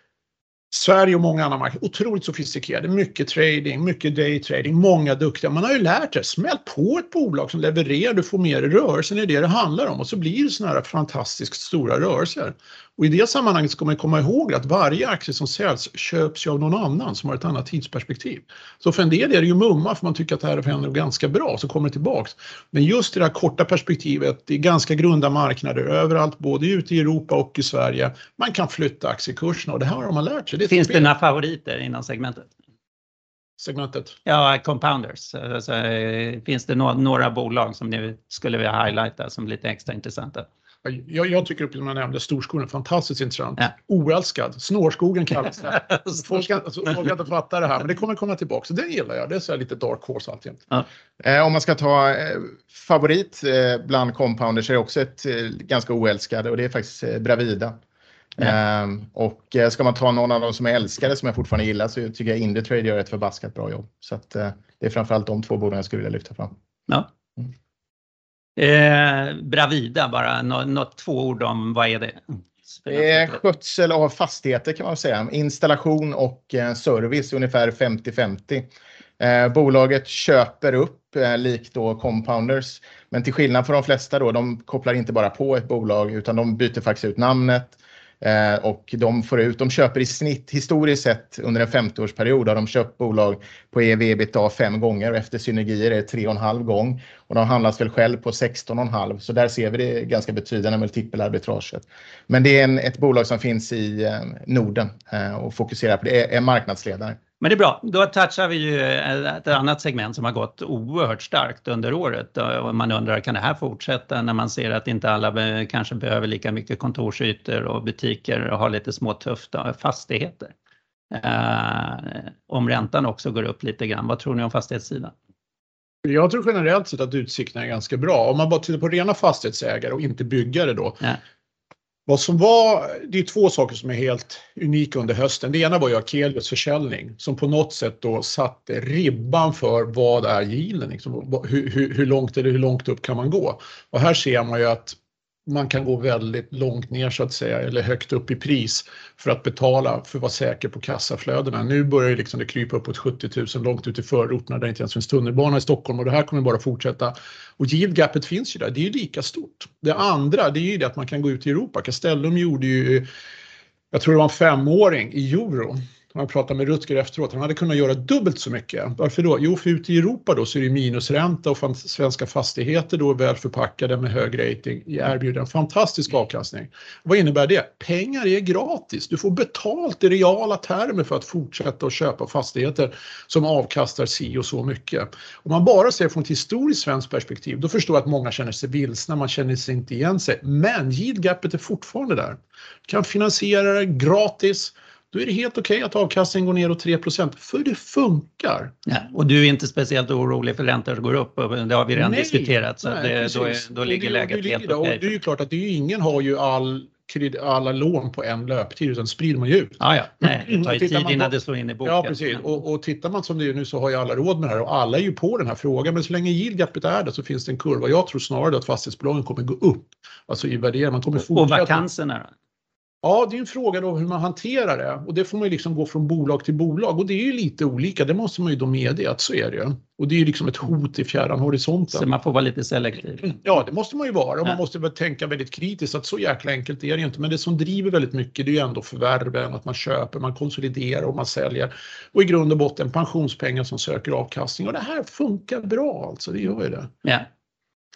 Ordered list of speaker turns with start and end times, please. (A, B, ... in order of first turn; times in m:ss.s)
0:00.7-0:31.1 A
0:30.7-0:32.5 B
0:33.6-0:34.2 A
0:34.2-0:40.5 B
0:40.8-0:50.6 A
0:45.8-0:46.4 B
0:51.2-0:57.8 C
0:58.4-1:06.5 C
1:08.6-1:13.4 B
1:12.9-1:18.7 C
1:19.2-1:47.2 C
1:47.4-2:00.5 B
2:01.1-2:05.1 B
2:06.0-2:11.0 A
2:12.1-2:43.1 A
2:43.9-3:18.7 A
3:18.9-3:25.1 B
3:22.0-3:31.3 A
3:29.8-3:32.4 B
3:31.8-3:41.8 A
3:41.3-3:42.3 B
3:43.0-3:52.0 A
3:51.9-3:53.4 B
3:53.3-4:06.9 A